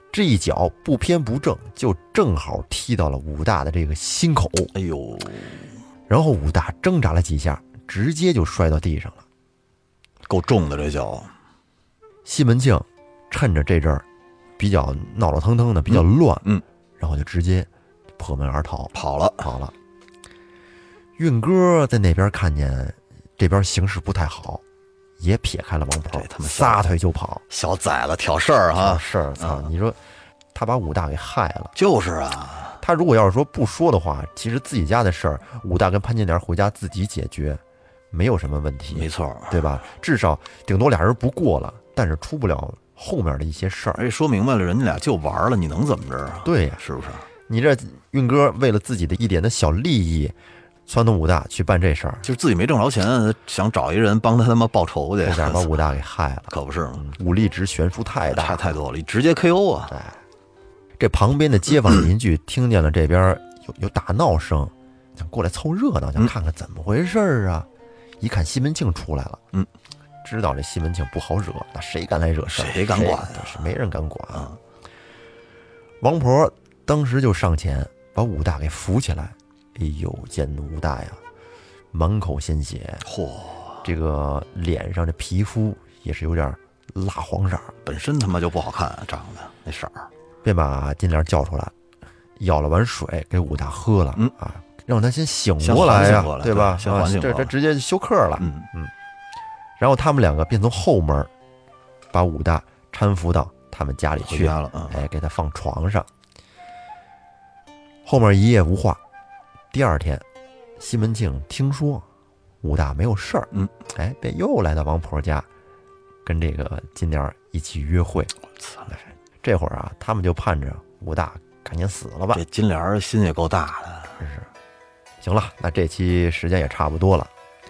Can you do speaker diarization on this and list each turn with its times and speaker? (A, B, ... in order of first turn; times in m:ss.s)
0:00.1-0:04.7 A
0:04.7-0:05.7 B
0:06.1-0:09.2 A
0:10.3-0:11.3 B
0:12.2-0:14.0 A
0:14.6-0:16.4 A
0:15.9-0:16.6 B
0:17.0-0:19.7 A
0:18.9-0:19.5 B
0:21.2-0:24.6 A
0:25.2-0:27.4 A
0:26.1-0:26.8 B
0:27.5-0:29.7 B
0:28.8-0:30.0 A
0:30.5-0:31.7 A
0:31.7-0:32.8 B
0:32.8-0:44.0 A
0:38.9-0:39.6 B
0:44.0-0:47.2 B
0:46.4-0:46.8 A
0:47.5-0:50.3 A
0:50.9-0:52.2 A
0:52.2-0:55.7 B
0:55.2-0:58.6 A
0:56.5-0:57.1 B
0:58.3-0:59.9 B
0:59.9-1:00.2 A
1:01.0-1:07.7 A
1:08.2-1:09.4 A
1:10.2-1:14.5 A
1:12.5-1:13.6 B
1:16.0-1:21.2 A
1:21.9-1:23.0 A
1:23.0-1:23.8 B
1:23.8-1:27.7 A
1:27.8-1:30.1 B
1:30.4-1:31.7 A
1:32.4-1:38.9 A
1:35.6-1:37.5 B
1:38.4-1:38.7 B
1:39.8-1:41.3 A
1:42.1-1:46.1 A
1:44.2-1:45.0 B
1:48.0-1:49.0 A
1:49.7-1:50.2 A
1:50.8-1:52.0 A
1:52.6-1:55.5 A
1:56.2-1:58.3 A
1:59.4-2:02.4 A
2:02.3-2:04.2 B
2:04.2-2:04.5 A
2:05.2-2:07.3 A